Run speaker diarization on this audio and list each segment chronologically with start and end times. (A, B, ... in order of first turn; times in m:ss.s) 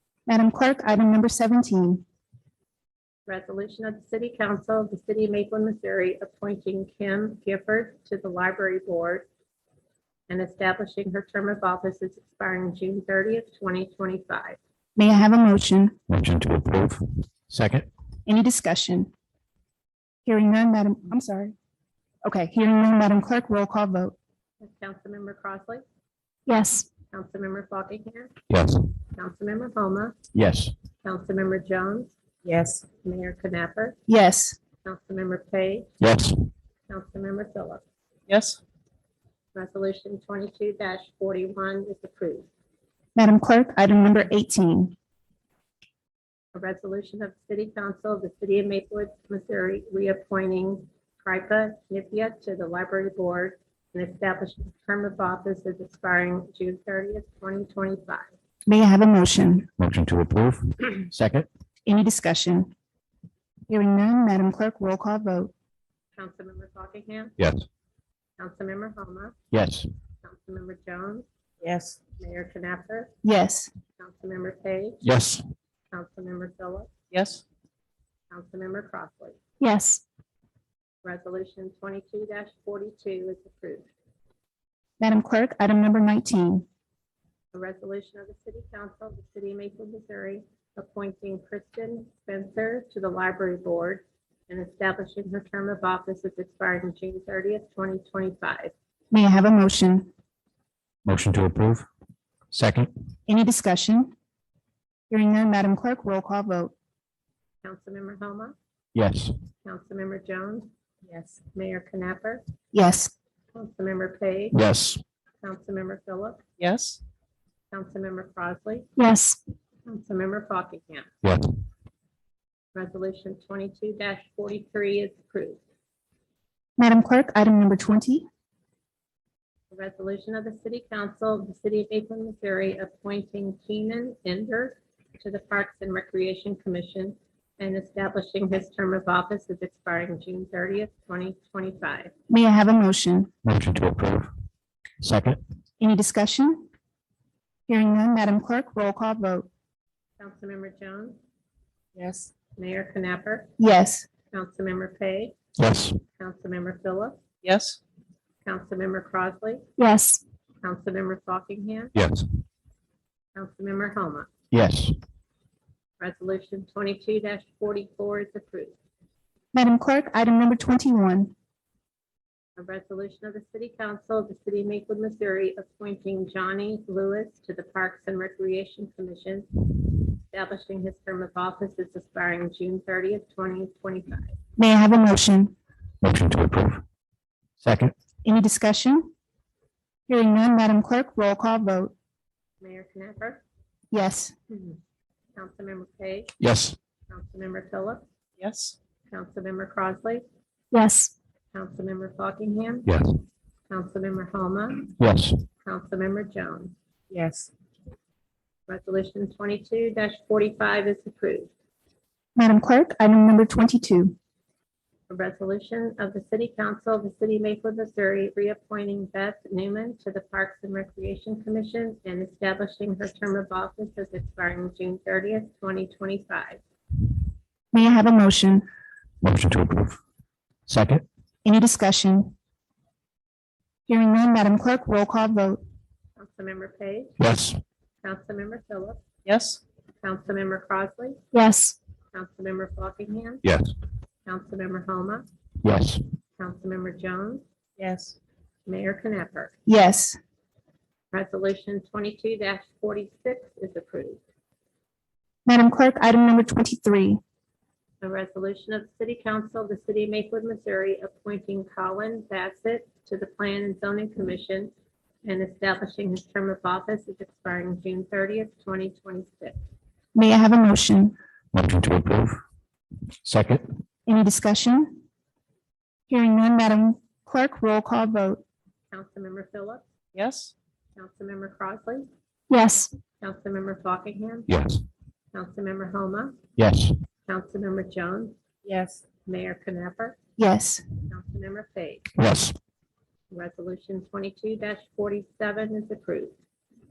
0:00.3-0:02.0 A
0:03.3-0:09.3 B
0:10.3-0:14.6 B
0:15.0-0:15.9 A
0:16.1-0:17.9 C
0:18.2-0:19.1 A
0:20.2-0:21.5 A
0:22.2-0:24.1 A
0:24.6-0:25.8 B
0:26.5-0:26.9 A
0:27.1-0:28.3 B
0:28.5-0:28.8 C
0:29.1-0:30.2 B
0:30.3-0:30.7 C
0:31.0-0:32.1 B
0:32.4-0:32.8 D
0:33.0-0:34.0 B
0:34.1-0:34.6 A
0:34.8-0:35.9 B
0:36.0-0:36.3 C
0:36.9-0:37.8 B
0:38.3-0:38.6 D
0:39.5-0:42.5 B
0:43.2-0:44.9 A
0:46.5-0:58.3 B
0:58.6-0:59.7 A
0:59.8-1:01.5 C
1:01.8-1:02.7 A
1:03.7-1:05.5 A
1:06.2-1:07.3 B
1:07.4-1:07.6 C
1:08.4-1:09.3 B
1:09.5-1:09.9 C
1:10.2-1:11.2 B
1:11.6-1:12.0 D
1:12.2-1:13.1 B
1:13.2-1:13.7 A
1:14.0-1:15.0 B
1:15.0-1:15.4 C
1:15.9-1:16.9 B
1:17.1-1:17.4 D
1:18.3-1:19.4 B
1:19.6-1:20.0 A
1:21.0-1:23.9 B
1:25.0-1:26.6 A
1:27.5-1:38.7 B
1:39.1-1:40.1 A
1:41.0-1:41.8 C
1:42.5-1:42.9 C
1:43.3-1:44.1 A
1:45.1-1:46.7 A
1:47.6-1:48.5 B
1:48.9-1:49.3 C
1:49.6-1:50.7 B
1:51.1-1:51.4 D
1:51.5-1:52.4 B
1:52.7-1:53.1 A
1:53.5-1:54.6 B
1:54.5-1:55.0 C
1:55.4-1:56.4 B
1:56.6-1:57.0 D
1:57.7-1:58.9 B
1:59.0-1:59.4 A
1:59.8-2:01.1 B
2:02.7-2:05.6 B
2:06.8-2:08.2 A
2:09.7-2:22.1 B
2:22.3-2:23.3 A
2:23.4-2:24.3 C
2:25.0-2:25.4 C
2:25.8-2:26.6 A
2:27.7-2:29.5 A
2:30.2-2:31.2 B
2:32.0-2:32.3 D
2:32.6-2:33.5 B
2:33.6-2:34.0 A
2:34.3-2:35.3 B
2:35.6-2:36.0 C
2:36.2-2:37.2 B
2:37.4-2:37.8 D
2:38.4-2:39.6 B
2:39.8-2:40.2 A
2:40.6-2:41.9 B
2:41.9-2:42.2 C
2:43.3-2:44.3 B
2:44.5-2:44.9 C
2:46.0-2:48.7 B
2:49.5-2:51.3 A
2:52.6-3:04.3 B
3:04.6-3:05.5 A
3:06.0-3:06.8 C
3:07.6-3:07.9 C
3:08.2-3:09.1 A
3:10.1-3:11.9 A
3:12.6-3:13.4 B
3:13.9-3:14.3 A
3:15.4-3:16.3 B
3:16.4-3:16.8 C
3:17.1-3:18.0 B
3:18.4-3:18.8 D
3:19.1-3:20.2 B
3:20.7-3:21.1 A
3:21.5-3:22.9 B
3:22.8-3:23.1 C
3:23.7-3:24.9 B
3:25.0-3:25.4 C
3:25.6-3:26.7 B
3:27.1-3:27.5 D
3:28.7-3:31.5 B
3:32.4-3:34.1 A
3:35.1-3:46.6 B
3:47.7-3:48.6 A
3:49.2-3:50.0 C
3:50.7-3:51.0 C
3:51.4-3:52.3 A
3:53.9-3:55.6 A
3:56.2-3:57.2 B
3:57.2-3:57.6 C
3:58.0-3:59.0 B
3:59.2-3:59.6 D
4:00.0-4:01.2 B
4:01.3-4:01.8 A
4:02.1-4:03.4 B
4:03.4-4:03.7 C
4:04.2-4:05.2 B
4:05.6-4:06.0 C
4:06.4-4:07.4 B
4:07.8-4:08.2 D
4:08.6-4:09.5 B
4:09.6-4:10.2 A
4:11.1-4:14.2 B
4:15.4-4:17.2 A
4:18.0-4:24.7 B
4:25.2-4:29.6 B
4:30.1-4:31.1 A
4:31.5-4:32.4 C
4:33.2-4:33.6 C
4:34.0-4:35.0 A
4:36.1-4:38.4 A
4:38.9-4:39.8 B
4:40.1-4:40.5 D
4:41.0-4:42.1 B
4:42.5-4:42.9 A
4:43.2-4:44.5 B
4:44.5-4:44.8 C
4:45.3-4:46.4 B
4:46.6-4:46.9 C
4:47.3-4:48.3 B
4:48.6-4:49.0 D
4:49.2-4:50.2 B
4:50.4-4:50.8 A
4:51.1-4:52.1 B
4:52.2-4:52.5 C
4:53.3-4:56.3 B